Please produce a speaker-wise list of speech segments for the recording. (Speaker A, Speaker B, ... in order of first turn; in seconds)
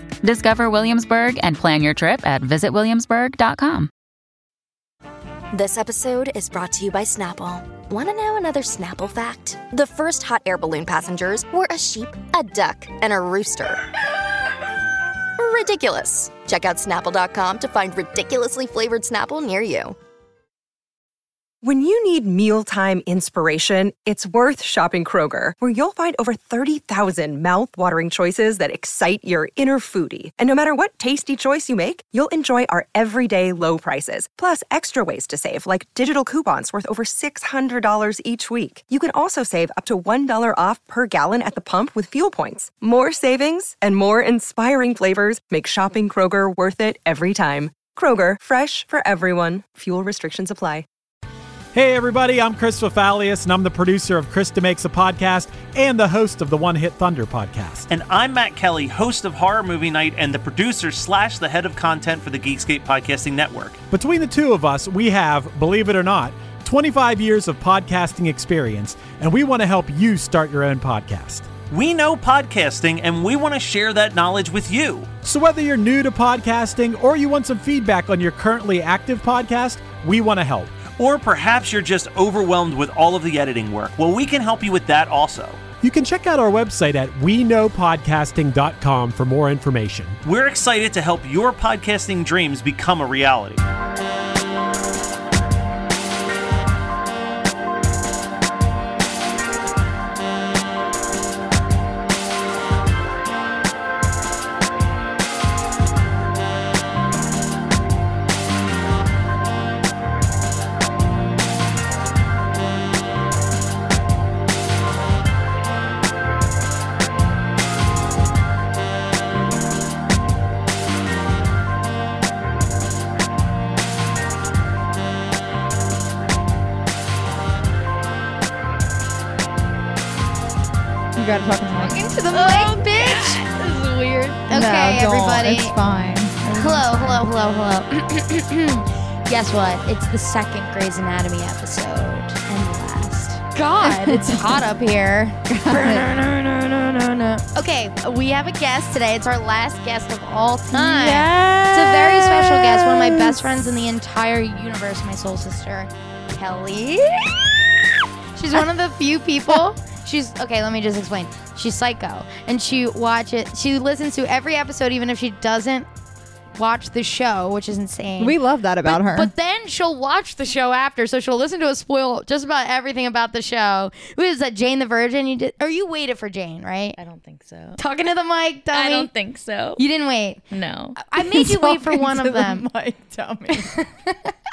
Speaker A: 0.2-3.9
Speaker B: 5.5-13.8, 15.4-19.9
Speaker C: 21.6-50.9
Speaker D: 51.7-57.9, 63.9-71.6, 75.2-80.9, 85.8-90.2
Speaker E: 57.9-63.8, 71.7-75.2, 80.9-85.6, 90.2-93.6
Speaker F: 131.1-132.2, 134.5-137.2, 143.8-144.6, 145.5-146.1, 150.7-153.7, 168.2-169.3, 181.2-183.7
Speaker G: 131.8-133.4, 134.4-135.7, 136.6-157.8, 158.3-165.9, 166.6-177.0, 177.8-179.1, 179.8-180.4, 181.0-182.7, 183.5-184.3
Speaker H: 132.3-134.4, 177.0-177.8, 178.7-179.8, 180.5-181.0